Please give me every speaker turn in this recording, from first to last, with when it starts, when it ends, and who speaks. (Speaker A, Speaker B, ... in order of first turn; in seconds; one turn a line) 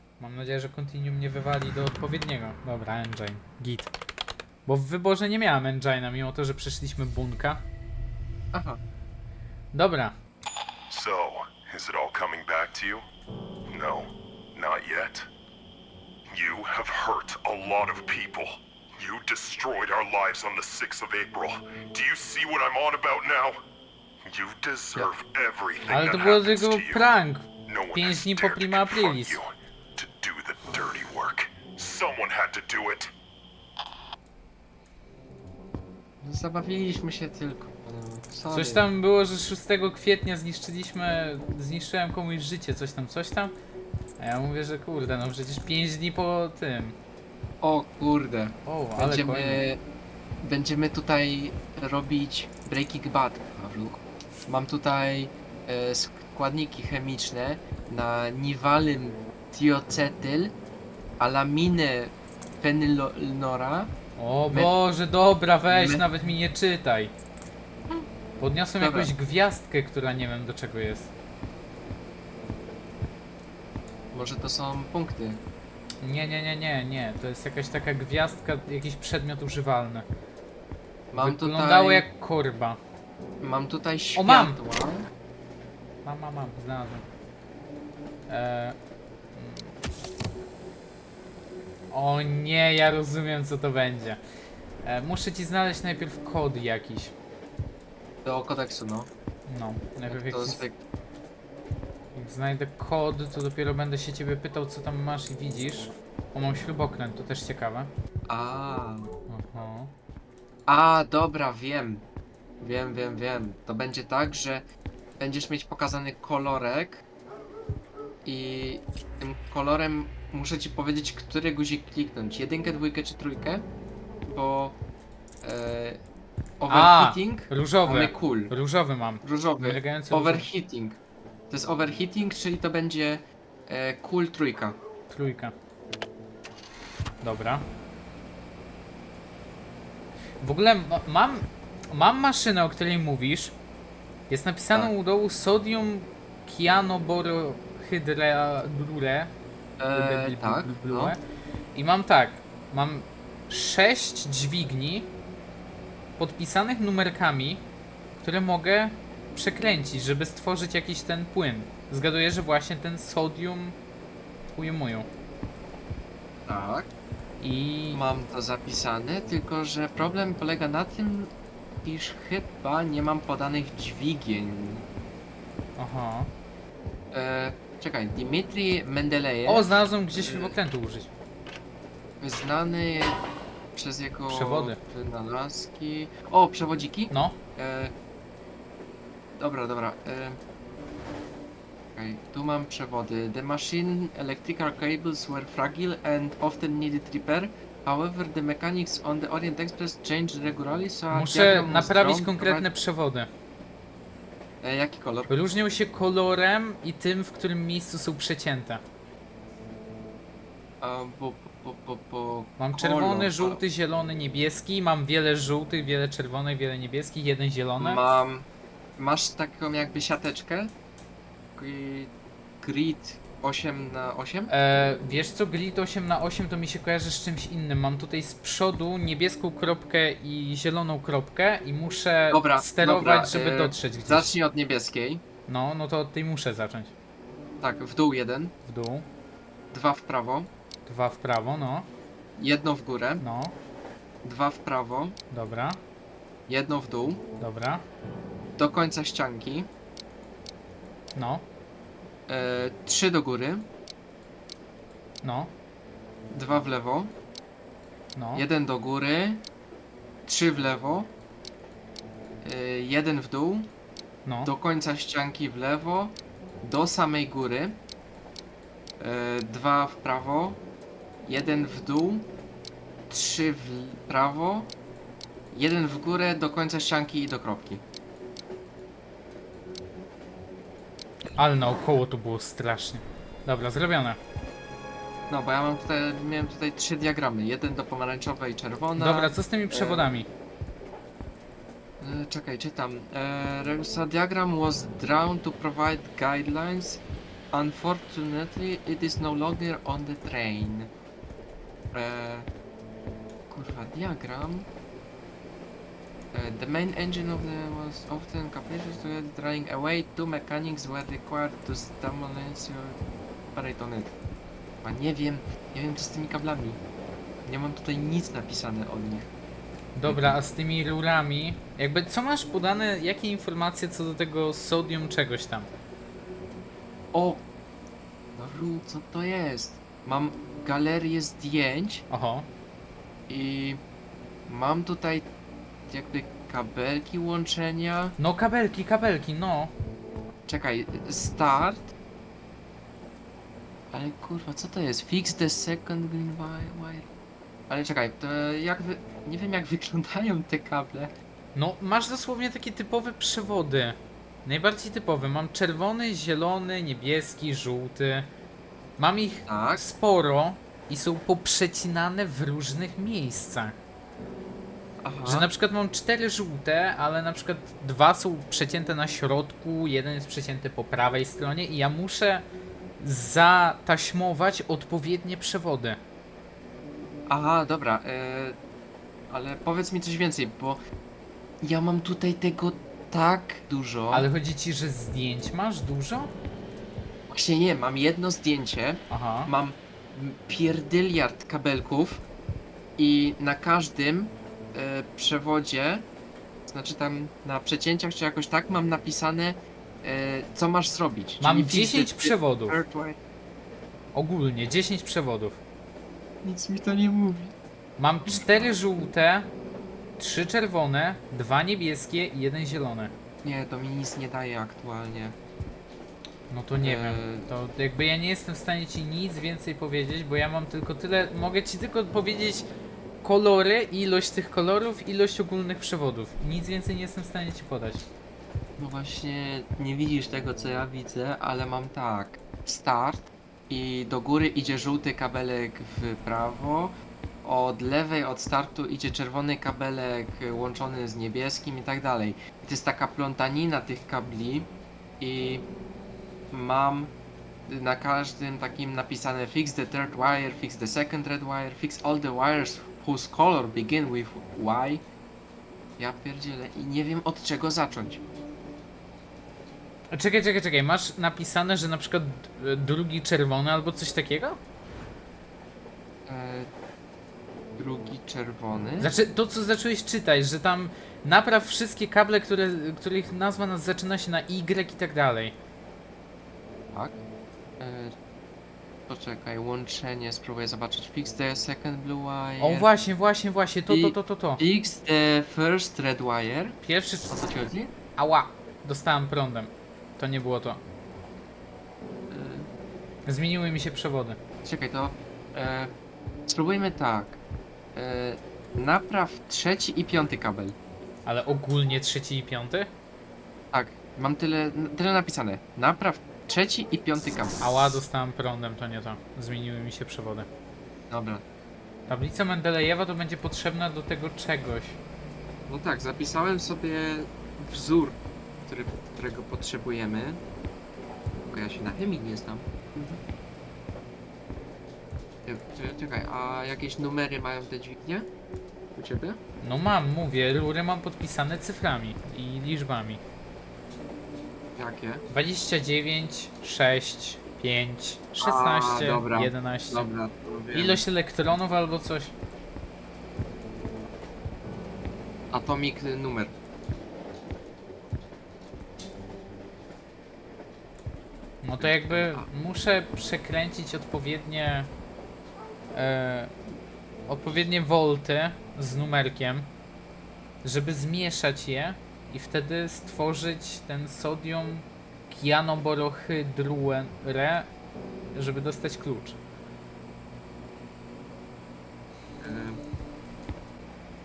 Speaker A: 0.2-3.9
Speaker A: 4.7-7.6
Speaker B: 8.5-8.8
Speaker A: 9.7-10.1
Speaker C: 10.9-13.1
Speaker C: 13.7-15.3
Speaker C: 16.3-23.6
Speaker C: 24.2-27.1
Speaker A: 25.9-29.4
Speaker C: 27.7-33.1
Speaker B: 36.2-38.9
Speaker A: 38.5-43.5
Speaker A: 44.2-47.0
Speaker B: 47.6-49.8
Speaker A: 48.7-49.6
Speaker B: 50.4-60.5
Speaker B: 61.2-63.9
Speaker A: 64.2-67.1
Speaker B: 65.7-66.1
Speaker A: 68.4-71.1
Speaker B: 68.8-69.1
Speaker B: 74.1-75.4
Speaker A: 76.0-80.1
Speaker B: 81.1-82.1
Speaker A: 81.2-82.8
Speaker B: 83.4-85.1
Speaker A: 84.2-84.6
Speaker A: 86.0-87.0
Speaker A: 88.3-88.8
Speaker A: 89.3-89.8
Speaker A: 91.9-94.2
Speaker A: 94.8-97.1
Speaker B: 98.2-99.1
Speaker A: 99.5-100.6
Speaker B: 100.1-100.8
Speaker A: 102.2-107.9
Speaker B: 108.3-109.1
Speaker A: 109.3-109.9
Speaker B: 110.7-112.1
Speaker B: 112.6-114.6
Speaker B: 115.2-117.0
Speaker B: 118.2-123.6
Speaker B: 124.3-124.8
Speaker B: 125.4-126.0
Speaker B: 126.6-128.6
Speaker A: 126.7-130.5
Speaker B: 129.2-131.0
Speaker B: 131.5-134.8
Speaker A: 135.1-135.5
Speaker A: 137.2-137.7
Speaker A: 140.4-143.6
Speaker A: 144.3-149.3
Speaker B: 149.8-151.2
Speaker A: 149.9-151.2
Speaker A: 151.8-155.1
Speaker A: 156.2-157.7
Speaker A: 158.2-163.8
Speaker A: 164.5-165.1
Speaker B: 166.5-166.9
Speaker A: 167.4-168.0
Speaker B: 167.9-171.3
Speaker B: 171.8-174.8
Speaker A: 175.8-176.3
Speaker B: 177.1-180.6
Speaker A: 179.5-181.1
Speaker B: 182.2-183.2
Speaker B: 183.7-187.9
Speaker A: 184.3-184.8
Speaker A: 187.1-187.4
Speaker B: 189.4-190.4
Speaker B: 191.9-202.7
Speaker A: 201.1-203.3
Speaker B: 204.6-205.3
Speaker A: 205.3-208.8
Speaker B: 210.8-213.6
Speaker A: 212.6-218.0
Speaker B: 217.8-220.7
Speaker B: 221.6-224.5
Speaker A: 224.5-234.3
Speaker B: 232.3-235.2
Speaker A: 235.5-236.9
Speaker B: 237.6-238.5
Speaker A: 238.7-239.1
Speaker B: 239.7-240.5
Speaker A: 240.9-241.9
Speaker B: 242.4-243.2
Speaker A: 243.2-243.6
Speaker B: 244.2-245.2
Speaker A: 245.3-245.8
Speaker B: 246.5-247.2
Speaker A: 247.4-247.8
Speaker B: 248.6-249.7
Speaker A: 251.2-251.4
Speaker B: 252.3-253.7
Speaker A: 255.2-255.5
Speaker B: 256.3-257.1
Speaker A: 258.2-258.4
Speaker B: 258.4-259.4
Speaker B: 260.2-261.1
Speaker B: 262.4-263.7
Speaker A: 264.3-264.5
Speaker B: 264.4-267.8
Speaker B: 269.0-270.6
Speaker B: 271.2-272.3
Speaker B: 273.1-274.7
Speaker B: 275.5-277.8
Speaker A: 281.4-284.2
Speaker B: 285.3-290.1
Speaker A: 289.0-290.3
Speaker B: 292.0-300.9
Speaker B: 301.9-302.5
Speaker B: 303.5-304.7
Speaker B: 306.3-313.0
Speaker B: 313.5-314.1
Speaker B: 314.8-316.8
Speaker B: 317.4-319.3
Speaker A: 319.9-325.7
Speaker B: 320.1-320.4
Speaker B: 327.1-327.4
Speaker B: 328.4-332.0
Speaker A: 332.1-332.5
Speaker B: 333.3-333.8
Speaker B: 334.5-335.3
Speaker B: 335.9-338.2
Speaker A: 338.2-339.7
Speaker B: 340.5-341.9
Speaker B: 343.9-347.1
Speaker B: 347.7-351.1
Speaker A: 351.6-358.3
Speaker A: 359.0-363.8
Speaker B: 359.4-359.8
Speaker B: 365.0-365.5
Speaker A: 365.2-372.4
Speaker A: 373.0-376.0
Speaker B: 377.3-378.6
Speaker B: 379.3-380.8
Speaker B: 381.6-384.3
Speaker A: 384.1-386.3
Speaker B: 387.3-392.2
Speaker A: 389.1-389.5
Speaker B: 393.0-396.1
Speaker B: 396.7-403.2
Speaker A: 401.4-402.8
Speaker A: 404.1-405.6
Speaker B: 406.4-407.5
Speaker A: 408.0-409.5
Speaker B: 408.3-408.7
Speaker A: 410.2-413.1
Speaker B: 413.4-415.4
Speaker A: 416.5-422.7
Speaker B: 416.8-417.5
Speaker A: 423.2-428.1
Speaker B: 428.8-445.6
Speaker B: 446.5-447.1
Speaker B: 447.7-455.0
Speaker B: 456.0-458.2
Speaker A: 460.1-464.6
Speaker B: 466.3-466.7
Speaker B: 467.8-469.1
Speaker A: 469.0-475.6
Speaker B: 476.9-477.2
Speaker B: 477.8-478.1
Speaker B: 479.1-482.9
Speaker A: 482.6-484.6
Speaker B: 483.9-487.9
Speaker A: 486.8-487.5
Speaker A: 488.2-490.8
Speaker B: 492.3-492.7
Speaker A: 493.3-494.4
Speaker B: 494.6-495.9
Speaker B: 496.5-497.4
Speaker B: 497.9-500.8
Speaker A: 501.3-502.9
Speaker B: 503.7-507.6
Speaker A: 507.6-510.5
Speaker B: 511.1-511.4
Speaker A: 512.1-515.0
Speaker B: 515.7-520.4
Speaker B: 521.5-523.2
Speaker B: 525.5-528.3
Speaker B: 529.0-529.4
Speaker A: 529.6-533.2
Speaker B: 534.8-535.2
Speaker A: 535.3-540.1
Speaker B: 538.4-541.0
Speaker A: 540.7-542.3
Speaker B: 545.5-546.5
Speaker A: 551.6-554.9
Speaker B: 551.8-552.5
Speaker A: 555.9-556.5
Speaker A: 557.3-559.7
Speaker A: 560.6-567.7
Speaker A: 568.3-569.4
Speaker B: 572.4-572.8